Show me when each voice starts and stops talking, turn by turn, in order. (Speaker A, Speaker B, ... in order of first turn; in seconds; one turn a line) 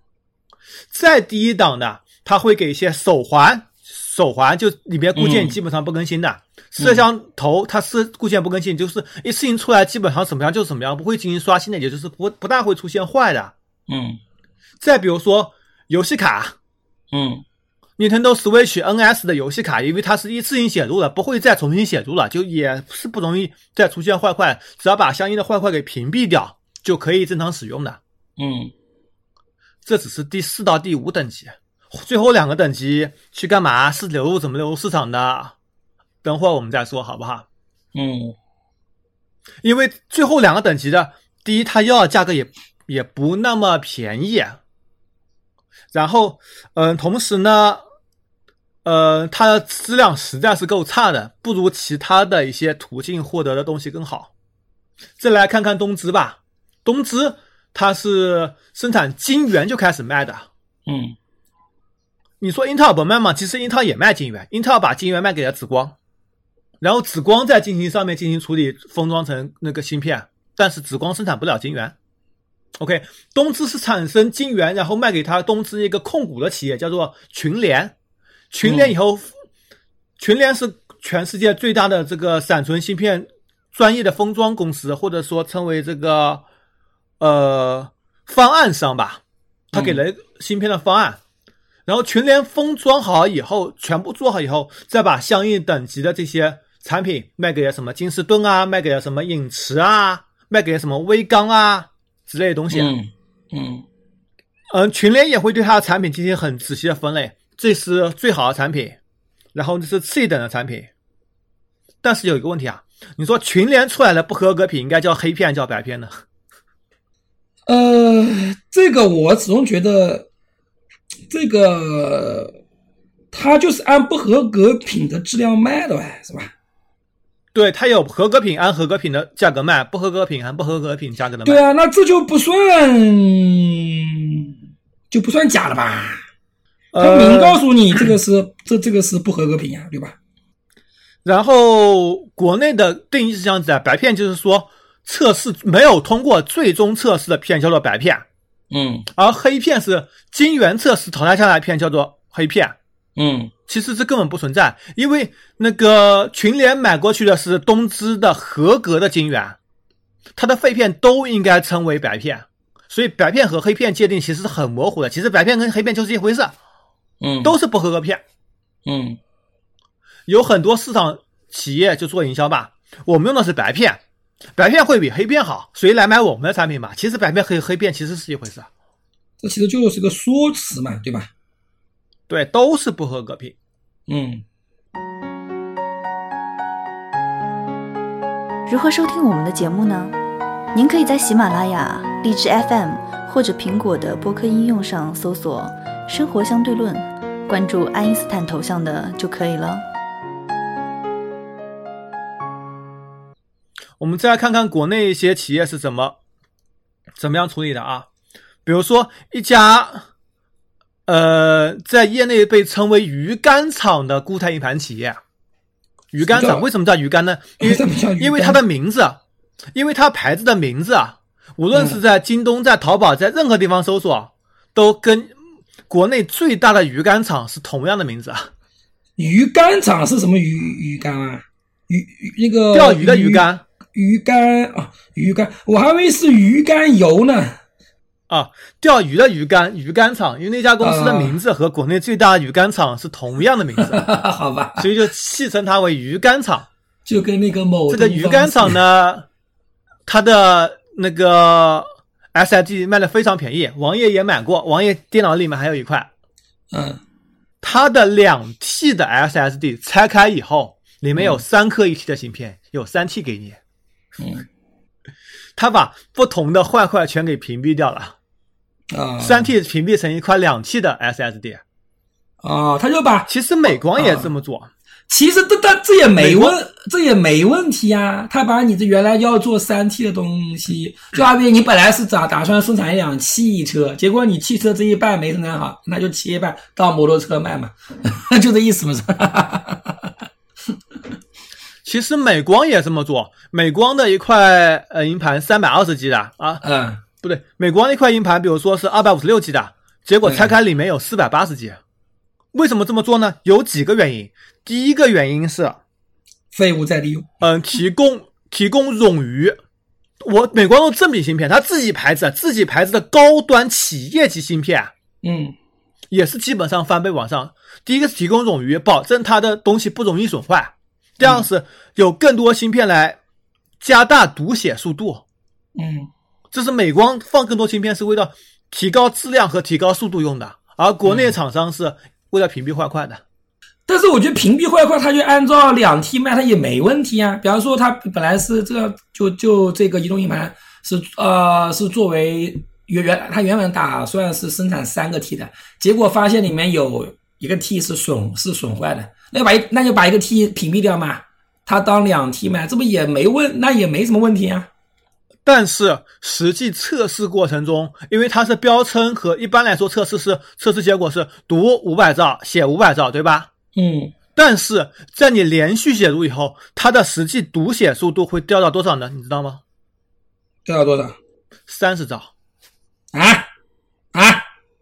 Speaker A: 0.9-13.5
Speaker B: 5.2-5.6
Speaker B: 6.8-7.0
Speaker B: 13.9-14.2
Speaker A: 14.8-16.6
Speaker B: 17.1-17.4
Speaker A: 18.0-28.0
Speaker B: 28.4-28.7
Speaker A: 29.9-35.5
Speaker A: 36.2-37.5
Speaker B: 38.0-38.4
Speaker A: 39.6-44.6
Speaker A: 45.9-47.8
Speaker A: 48.9-54.3
Speaker A: 55.2-60.5
Speaker B: 60.9-61.2
Speaker A: 62.4-66.0
Speaker A: 66.8-72.0
Speaker A: 72.8-78.0
Speaker A: 78.5-79.3
Speaker B: 78.6-78.9
Speaker A: 80.2-86.4
Speaker A: 87.2-89.2
Speaker A: 89.7-91.2
Speaker B: 89.7-90.0
Speaker A: 91.9-102.9
Speaker B: 102.7-103.9
Speaker A: 104.7-109.0
Speaker A: 109.5-110.9
Speaker A: 112.0-116.2
Speaker B: 117.7-120.3
Speaker B: 121.3-122.5
Speaker B: 123.3-126.5
Speaker A: 127.5-131.6
Speaker B: 131.4-134.5
Speaker B: 135.1-136.2
Speaker A: 136.9-138.1
Speaker B: 137.0-140.2
Speaker A: 141.2-148.2
Speaker B: 148.7-149.1
Speaker A: 149.1-152.8
Speaker B: 153.2-153.5
Speaker A: 153.7-159.6
Speaker A: 160.4-166.6
Speaker B: 167.2-167.6
Speaker A: 167.4-168.2
Speaker B: 168.9-169.2
Speaker A: 170.3-174.0
Speaker A: 174.6-178.7
Speaker B: 179.4-181.3
Speaker A: 182.3-183.6
Speaker B: 184.1-184.4
Speaker C: 188.7-190.2
Speaker C: 190.7-199.8
Speaker A: 204.0-206.2
Speaker A: 207.2-208.1
Speaker A: 208.7-210.1
Speaker A: 211.1-215.2
Speaker A: 216.1-219.2
Speaker B: 216.2-216.7
Speaker B: 217.6-218.6
Speaker A: 219.7-225.3
Speaker B: 221.7-222.0
Speaker A: 225.9-228.5
Speaker B: 229.2-237.6
Speaker A: 232.7-233.6
Speaker A: 238.3-244.0
Speaker B: 240.8-241.4
Speaker B: 243.8-244.9
Speaker A: 244.8-246.7
Speaker B: 247.1-248.8
Speaker A: 247.9-249.3
Speaker A: 250.1-256.1
Speaker B: 256.7-257.0
Speaker A: 257.6-263.6
Speaker B: 261.2-261.4
Speaker B: 264.2-264.5
Speaker A: 265.6-268.1
Speaker B: 268.9-269.5
Speaker A: 269.2-271.6
Speaker B: 272.4-273.3
Speaker A: 273.3-274.7
Speaker B: 273.9-274.3
Speaker B: 275.1-290.1
Speaker A: 276.2-276.6
Speaker A: 291.9-296.6
Speaker B: 296.6-297.0
Speaker A: 297.2-301.8
Speaker B: 300.2-300.5
Speaker A: 302.5-305.8
Speaker B: 306.5-307.3
Speaker A: 307.4-309.6
Speaker A: 310.2-314.9
Speaker B: 315.2-315.6
Speaker A: 316.1-323.2
Speaker B: 321.2-321.5
Speaker A: 323.8-325.2
Speaker B: 325.8-326.1
Speaker A: 326.5-333.2
Speaker B: 331.1-331.3
Speaker B: 333.9-354.7
Speaker A: 355.4-363.5
Speaker B: 363.8-364.1
Speaker A: 364.4-369.6
Speaker B: 370.7-371.2
Speaker A: 371.7-372.3
Speaker B: 373.1-373.5
Speaker B: 374.1-374.4